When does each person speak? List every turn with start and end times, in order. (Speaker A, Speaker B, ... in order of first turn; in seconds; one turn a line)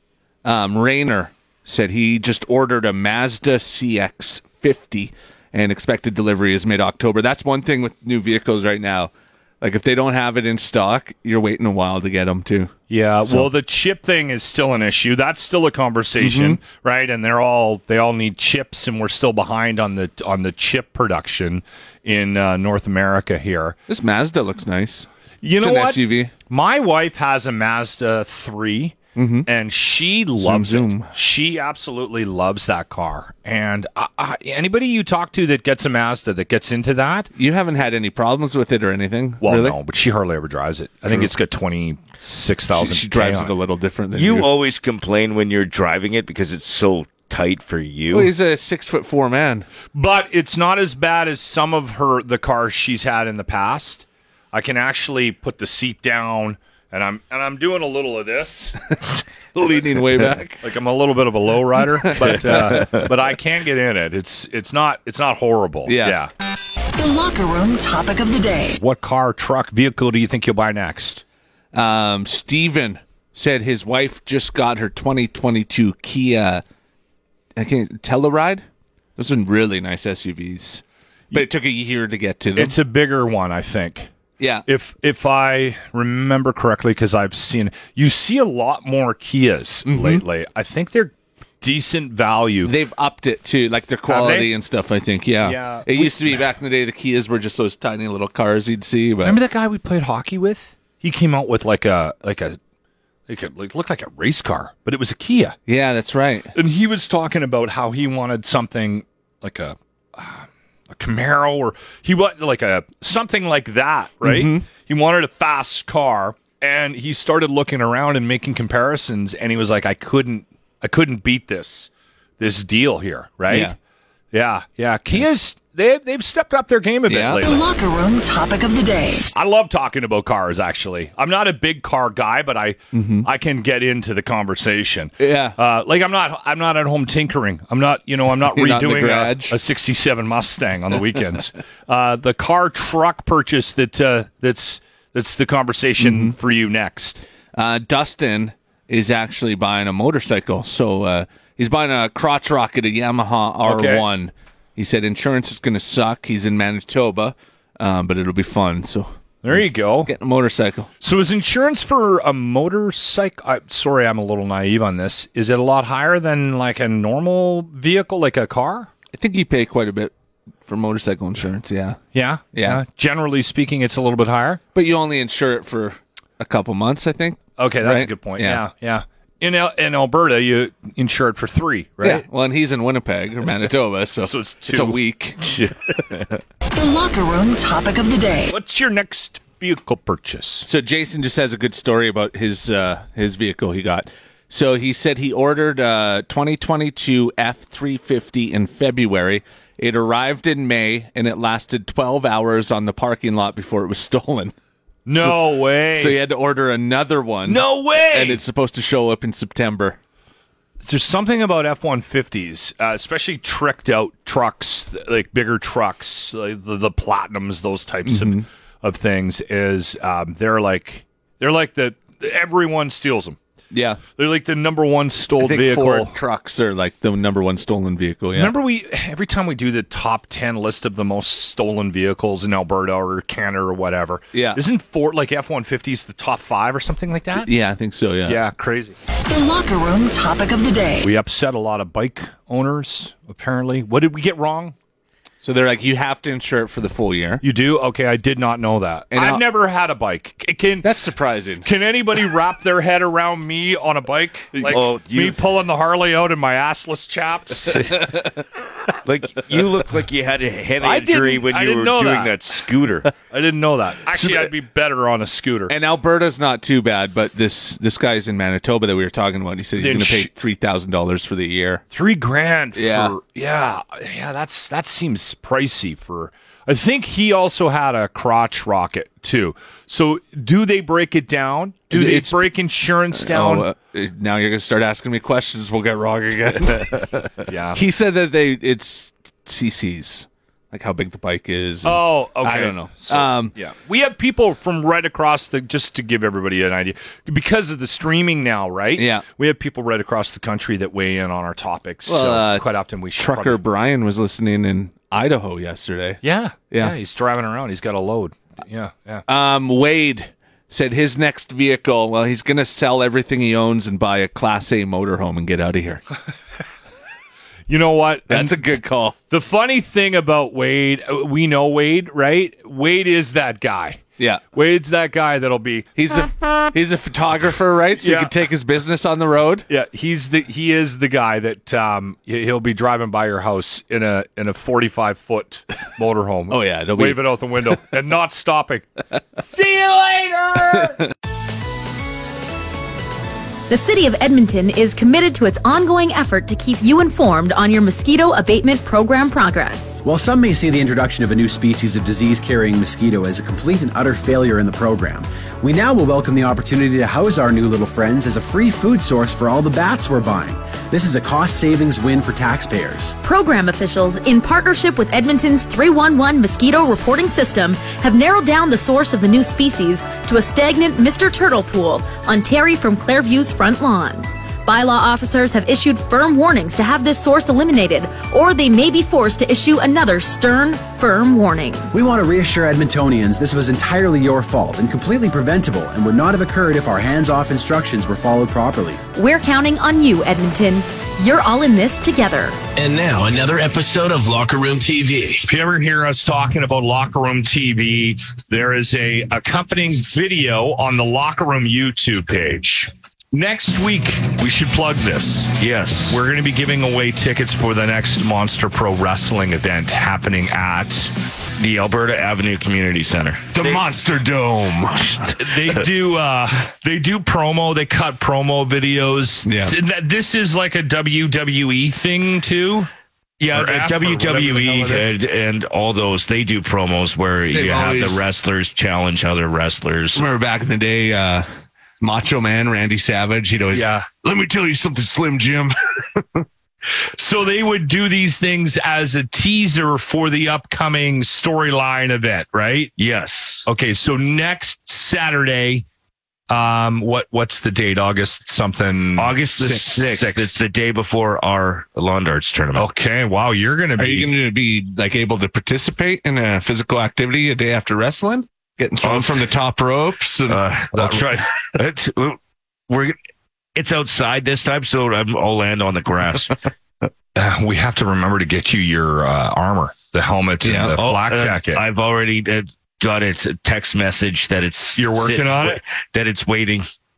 Speaker A: 0.4-12.7
Speaker B: 12.9-23.8
Speaker A: 16.2-16.6
Speaker A: 23.9-26.3
Speaker B: 25.4-37.3
Speaker A: 29.1-29.5
Speaker A: 30.4-31.1
Speaker A: 37.3-39.8
Speaker B: 39.4-43.5
Speaker A: 42.7-44.5
Speaker C: 44.1-48.3
Speaker A: 48.1-49.7
Speaker B: 49.9-58.8
Speaker A: 59.5-60.6
Speaker B: 60.6-66.3
Speaker A: 62.0-62.8
Speaker C: 62.6-63.1
Speaker A: 65.9-66.2
Speaker D: 67.0-68.8
Speaker B: 68.8-71.2
Speaker A: 71.7-76.6
Speaker A: 77.6-78.6
Speaker A: 79.2-82.8
Speaker B: 82.5-84.1
Speaker A: 84.4-84.7
Speaker B: 84.7-92.7
Speaker A: 89.9-90.2
Speaker A: 92.6-99.4
Speaker B: 94.1-94.5
Speaker B: 95.4-96.4
Speaker B: 99.2-102.6
Speaker B: 103.3-105.5
Speaker A: 105.7-106.5
Speaker B: 106.5-123.7
Speaker A: 114.2-114.7
Speaker A: 123.5-123.7
Speaker B: 124.3-127.6
Speaker A: 127.1-127.4
Speaker D: 127.4-129.3
Speaker B: 129.3-147.2
Speaker A: 132.9-133.3
Speaker A: 135.2-135.6
Speaker A: 138.5-139.6
Speaker A: 146.0-146.3
Speaker A: 147.6-160.9
Speaker B: 153.7-154.1
Speaker B: 159.4-160.1
Speaker B: 161.0-168.9
Speaker A: 169.1-170.1
Speaker A: 170.7-172.0
Speaker B: 172.1-174.6
Speaker A: 172.5-172.8
Speaker A: 174.7-178.6
Speaker B: 177.6-182.2
Speaker A: 182.0-185.4
Speaker B: 184.2-185.0
Speaker D: 186.7-188.5
Speaker B: 188.5-190.7
Speaker A: 190.6-204.5
Speaker B: 205.1-206.2
Speaker A: 205.1-205.4
Speaker A: 205.9-210.0
Speaker B: 207.4-208.4
Speaker B: 210.8-223.4
Speaker A: 218.1-218.4
Speaker A: 223.7-224.0
Speaker B: 224.2-226.1
Speaker A: 225.4-228.5
Speaker B: 228.3-237.5
Speaker A: 234.3-234.6
Speaker A: 237.3-238.4
Speaker B: 238.2-238.9
Speaker D: 239.2-241.1
Speaker B: 241.0-244.7
Speaker A: 245.4-247.4
Speaker B: 247.4-250.9
Speaker A: 249.1-249.4
Speaker A: 250.8-251.7
Speaker B: 251.6-258.0
Speaker C: 254.6-255.4
Speaker C: 259.1-263.1
Speaker B: 260.8-262.3
Speaker B: 263.2-265.7
Speaker A: 264.2-264.5
Speaker A: 265.7-271.8
Speaker B: 269.8-270.3
Speaker B: 271.9-283.7
Speaker A: 272.8-273.1
Speaker A: 281.9-282.4
Speaker A: 283.1-293.5
Speaker B: 287.5-287.8
Speaker B: 291.8-303.6
Speaker A: 298.9-299.2
Speaker A: 302.1-306.9
Speaker B: 306.2-309.2
Speaker A: 309.3-316.0
Speaker B: 317.7-318.6
Speaker A: 318.3-319.1
Speaker B: 319.3-324.0
Speaker A: 324.2-324.4
Speaker B: 324.5-325.9
Speaker A: 326.0-329.7
Speaker B: 328.0-328.3
Speaker B: 329.7-341.0
Speaker A: 336.5-337.7
Speaker E: 343.7-350.0
Speaker F: 350.0-363.1
Speaker E: 363.2-381.9
Speaker F: 381.9-389.0
Speaker E: 389.1-392.6
Speaker G: 392.8-395.4
Speaker B: 395.5-405.5
Speaker C: 405.6-406.2
Speaker B: 406.1-411.1
Speaker C: 411.6-413.5
Speaker A: 413.5-415.4
Speaker B: 415.3-422.9
Speaker A: 419.4-419.7
Speaker C: 423.4-430.2
Speaker B: 423.5-425.1
Speaker A: 427.5-428.3
Speaker A: 430.1-431.5
Speaker A: 432.0-436.4
Speaker B: 433.7-434.1
Speaker B: 437.2-442.9
Speaker C: 443.0-443.6
Speaker B: 443.6-445.8
Speaker B: 446.5-450.5
Speaker C: 449.2-452.9
Speaker B: 452.7-454.3
Speaker A: 454.0-461.2
Speaker C: 459.0-459.4
Speaker C: 460.5-463.1
Speaker C: 463.8-466.6
Speaker B: 467.4-471.8
Speaker A: 470.6-470.9
Speaker C: 470.9-476.8
Speaker B: 475.0-475.8